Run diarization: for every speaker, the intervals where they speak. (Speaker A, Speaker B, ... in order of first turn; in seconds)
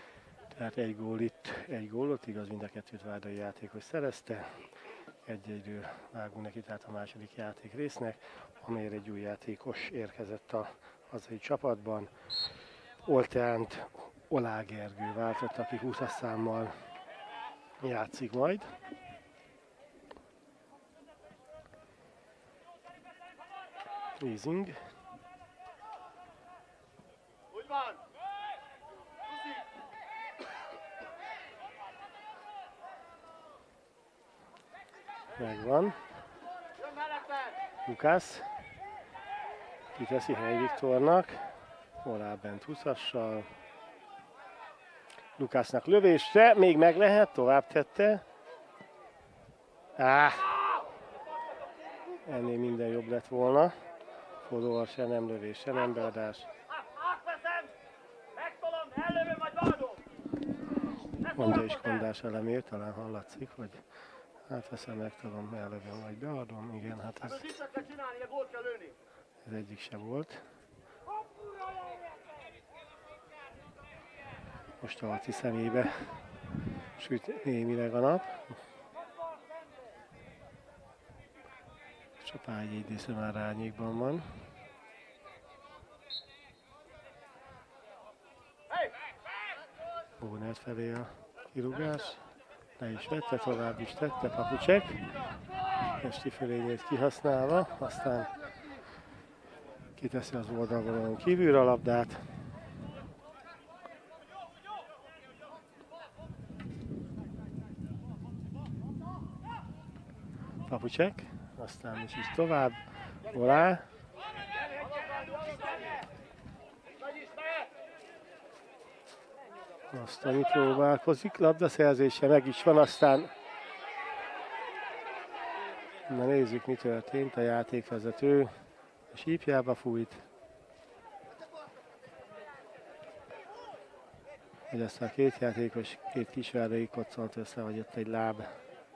Speaker A: 0.6-4.5, 5.2-12.1, 13.0-16.7, 17.8-18.7, 24.2-24.8, 35.4-36.0, 37.9-38.5, 40.0-41.4, 42.0-43.5, 45.4-48.2, 50.0-50.5, 52.2-53.7, 54.4-56.5, 61.3-63.8, 64.5-67.5, 69.4-70.4, 74.8-76.1, 77.0-78.5, 82.2-84.2, 90.2-92.2, 92.8-95.0, 95.9-98.3, 100.0-102.2, 110.7-113.8, 119.9-123.3, 126.1-128.5, 129.1-130.2, 134.7-138.5
Speaker B: 36.8-37.5, 56.7-57.7, 58.4-60.0, 61.3-61.9, 67.5-68.9, 114.7-116.0, 117.0-117.7